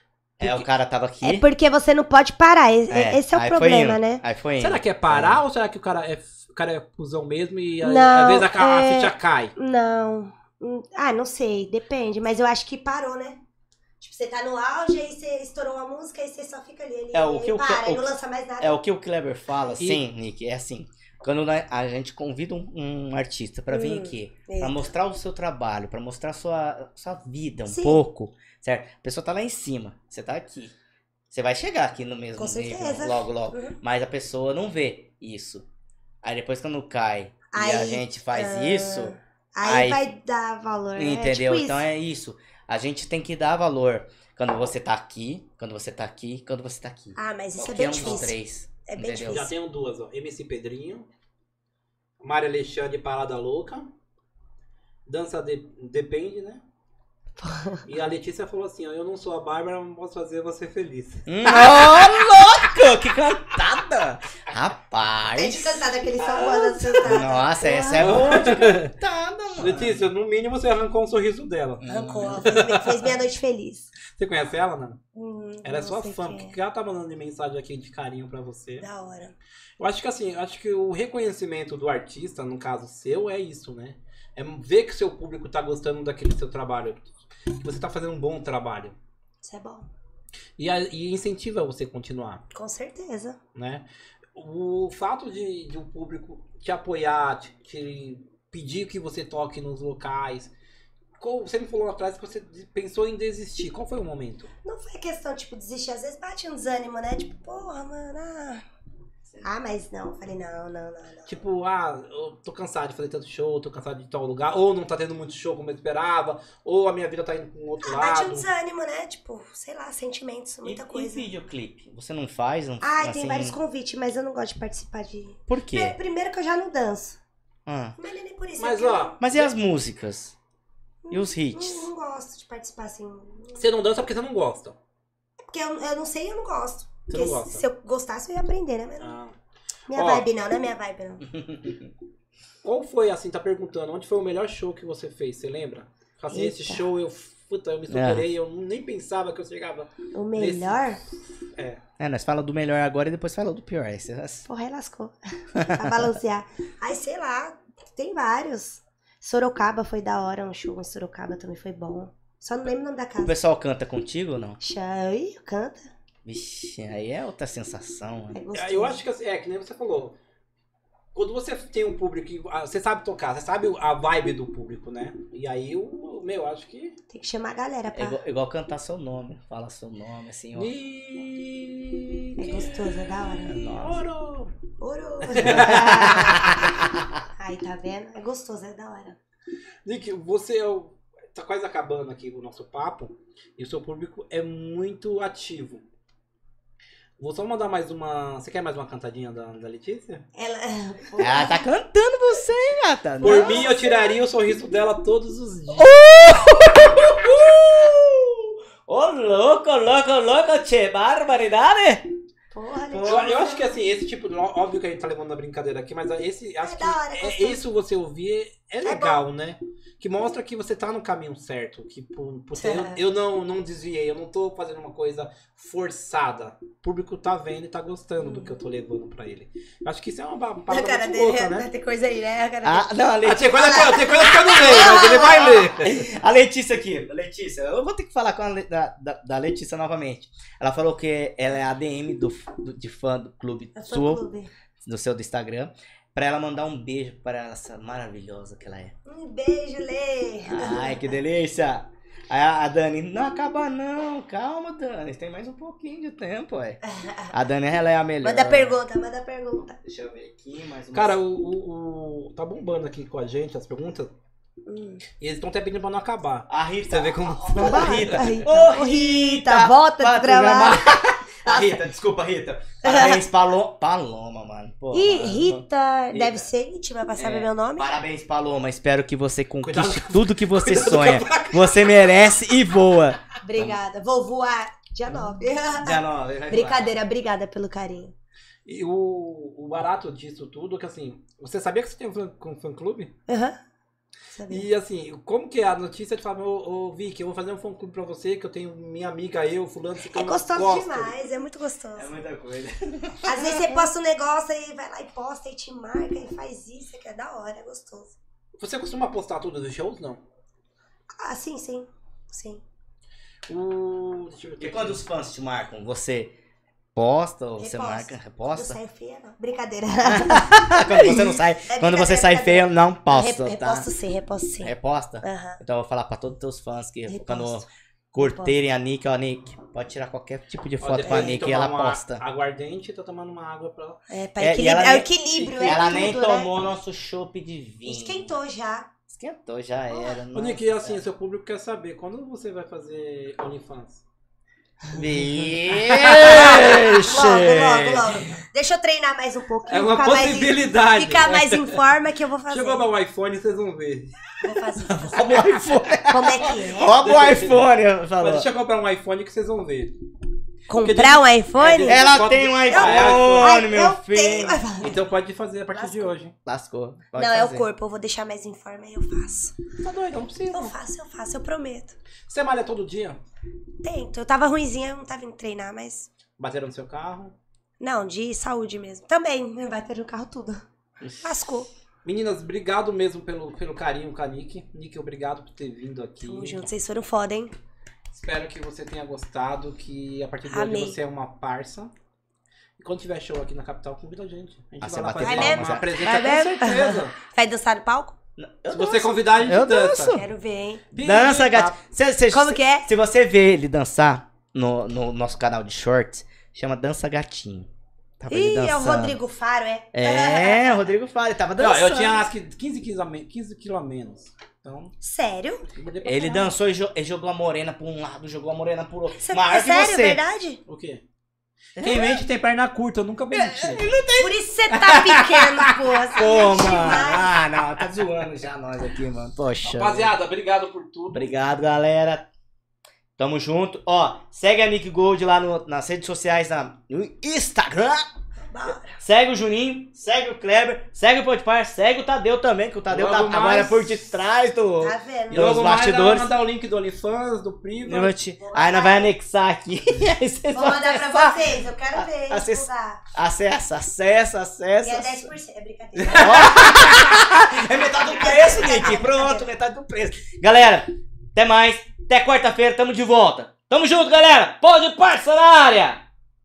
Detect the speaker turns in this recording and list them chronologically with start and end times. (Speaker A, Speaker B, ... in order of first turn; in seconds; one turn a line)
Speaker A: 0.4-1.4
Speaker B: 1.2-4.2
Speaker A: 2.9-5.4
Speaker C: 4.6-9.5
Speaker B: 7.8-13.4
Speaker B: 14.0-18.8
Speaker A: 17.1-30.7
Speaker C: 19.8-20.0
Speaker B: 23.7-24.9
Speaker B: 27.7-28.0
Speaker A: 31.3-35.6
Speaker B: 32.4-33.7
Speaker A: 36.2-40.0
Speaker B: 37.5-41.8
Speaker A: 41.0-49.5
Speaker B: 47.1-49.5
Speaker C: 49.2-51.1
Speaker C: 52.2-53.9
Speaker C: 55.0-56.6
Speaker B: 57.4-57.8
Speaker C: 57.9-62.5
Speaker A: 61.3-70.1
Speaker B: 65.3-68.3
Speaker C: 68.0-68.9
Speaker C: 69.5-73.1
Speaker A: 71.8-72.6
Speaker B: 71.8-73.9
Speaker C: 74.1-75.0
Speaker B: 75.1-76.6
Speaker C: 75.6-78.8
Speaker B: 78.8-79.3
Speaker C: 79.8-89.0
Speaker B: 89.4-89.9
Speaker C: 90.6-92.4
Speaker B: 92.5-93.4
Speaker C: 93.5-100.5
Speaker C: 101.2-104.5
Speaker B: 104.6-108.6
Speaker B: 109.4-111.4
Speaker C: 111.3-118.5
Speaker B: 117.8-121.3
Speaker A: 120.6-123.6
Speaker B: 122.8-127.2
Speaker A: 125.5-126.0
Speaker A: 127.7-128.0
Speaker B: 128.0-129.2
Speaker C: 128.6-129.5
Speaker A: 129.2-130.3
Speaker B: 131.0-133.6
Speaker A: 131.1-131.9
Speaker C: 133.5-134.8
Speaker B: 135.5-139.2
Speaker C: 137.1-137.6
Speaker C: 139.0-139.3
Speaker B: 139.9-141.2
Speaker C: 139.9-140.3
Speaker A: 141.4-141.9
Speaker C: 142.6-151.8
Speaker B: 146.3-146.8
Speaker A: 147.9-148.2
Speaker B: 150.1-151.0
Speaker A: 152.0-154.5
Speaker B: 154.5-163.3
Speaker A: 155.6-156.0
Speaker A: 163.2-164.6
Speaker B: 164.6-165.9
Speaker A: 166.2-168.4
Speaker B: 168.3-169.0
Speaker C: 168.5-170.1
Speaker C: 171.1-177.0
Speaker B: 177.1-178.2
Speaker A: 177.9-180.7
Speaker C: 180.5-182.8
Speaker B: 182.4-183.6
Speaker A: 183.4-184.1
Speaker C: 183.5-184.5
Speaker B: 184.8-186.6
Speaker C: 185.2-186.5
Speaker A: 185.4-187.0
Speaker B: 187.4-189.2
Speaker C: 189.8-195.8
Speaker C: 197.2-200.2
Speaker B: 200.3-201.7
Speaker A: 201.2-203.6
Speaker B: 203.2-204.2
Speaker C: 203.2-206.0
Speaker A: 205.7-212.1
Speaker B: 212.5-213.8
Speaker C: 212.9-231.7
Speaker B: 216.6-217.6
Speaker B: 218.8-219.2
Speaker B: 222.5-223.0
Speaker B: 228.2-228.5
Speaker B: 230.7-232.9
Speaker A: 232.6-233.7
Speaker C: 233.2-236.1
Speaker B: 233.5-235.7
Speaker A: 234.6-244.2
Speaker B: 243.7-244.5
Speaker A: 244.8-248.9
Speaker B: 249.1-251.1
Speaker A: 250.4-256.8
Speaker B: 256.8-257.3
Speaker A: 257.3-258.8
Speaker B: 258.2-259.8
Speaker A: 259.8-261.2
Speaker C: 260.9-264.1
Speaker B: 264.6-265.0
Speaker C: 265.2-268.4
Speaker A: 266.5-276.5
Speaker B: 267.5-271.8
Speaker B: 272.8-273.2
Speaker B: 274.9-278.0
Speaker A: 277.2-283.8
Speaker C: 279.6-281.9
Speaker B: 283.4-288.1
Speaker A: 285.8-286.9
Speaker C: 288.6-293.1
Speaker B: 293.3-293.6
Speaker B: 294.3-294.7
Speaker C: 294.5-301.2
Speaker B: 300.1-302.1
Speaker A: 301.9-303.4
Speaker B: 303.2-308.1
Speaker C: 308.6-310.2
Speaker B: 311.2-312.6
Speaker C: 313.5-315.0
Speaker A: 314.6-316.3
Speaker A: 316.9-318.8
Speaker B: 317.6-320.9
Speaker A: 320.0-323.9
Speaker C: 320.9-321.4
Speaker B: 321.6-325.6
Speaker A: 324.6-332.2
Speaker B: 327.1-328.5
Speaker C: 330.8-334.0
Speaker B: 334.1-336.5
Speaker A: 334.4-338.3
Speaker C: 335.4-336.0
Speaker B: 337.8-338.9
Speaker A: 339.1-341.0
Speaker B: 339.9-340.2
Speaker C: 340.3-344.0
Speaker A: 344.9-348.3
Speaker C: 345.8-346.8
Speaker B: 346.2-352.8
Speaker C: 349.7-351.8
Speaker C: 352.5-354.2
Speaker B: 354.4-357.0
Speaker A: 355.1-358.5
Speaker C: 355.1-355.7
Speaker C: 357.0-359.9
Speaker B: 360.7-362.1
Speaker C: 360.8-363.6
Speaker A: 361.8-364.6
Speaker B: 362.7-365.0
Speaker C: 364.8-366.3
Speaker B: 365.7-366.1
Speaker A: 366.4-367.6
Speaker B: 367.1-369.6
Speaker C: 369.8-370.7
Speaker B: 370.5-371.9
Speaker C: 372.3-373.2
Speaker B: 373.8-376.1
Speaker C: 376.4-377.3
Speaker B: 377.8-380.6
Speaker B: 381.2-381.7
Speaker C: 382.0-386.7
Speaker B: 386.2-387.5
Speaker C: 388.1-391.9
Speaker B: 390.5-391.0
Speaker C: 392.8-397.1
Speaker A: 394.8-395.9
Speaker B: 395.2-398.1
Speaker A: 398.4-400.2
Speaker C: 398.7-400.2
Speaker B: 400.0-400.8
Speaker C: 400.9-401.8
Speaker A: 401.0-407.7
Speaker B: 402.3-402.9
Speaker A: 408.2-409.2
Speaker B: 408.3-410.9
Speaker A: 409.9-412.3
Speaker C: 411.6-414.9
Speaker B: 415.0-415.6
Speaker C: 415.7-416.5
Speaker A: 416.0-420.2
Speaker B: 419.1-420.6
Speaker C: 420.7-421.0
Speaker A: 421.8-422.2
Speaker C: 421.8-423.9
Speaker A: 423.3-424.4
Speaker B: 424.2-427.4
Speaker C: 424.7-426.1
Speaker A: 426.1-430.1
Speaker C: 429.6-431.3
Speaker A: 431.1-432.3
Speaker A: 433.2-438.1
Speaker B: 438.5-439.0
Speaker A: 438.7-446.3
Speaker C: 442.9-444.0
Speaker B: 444.8-445.5
Speaker C: 445.3-448.1
Speaker A: 447.8-455.3
Speaker B: 448.4-449.1
Speaker B: 450.5-453.0
Speaker B: 454.8-456.8
Speaker C: 455.9-457.2
Speaker A: 456.1-466.0
Speaker B: 457.8-459.5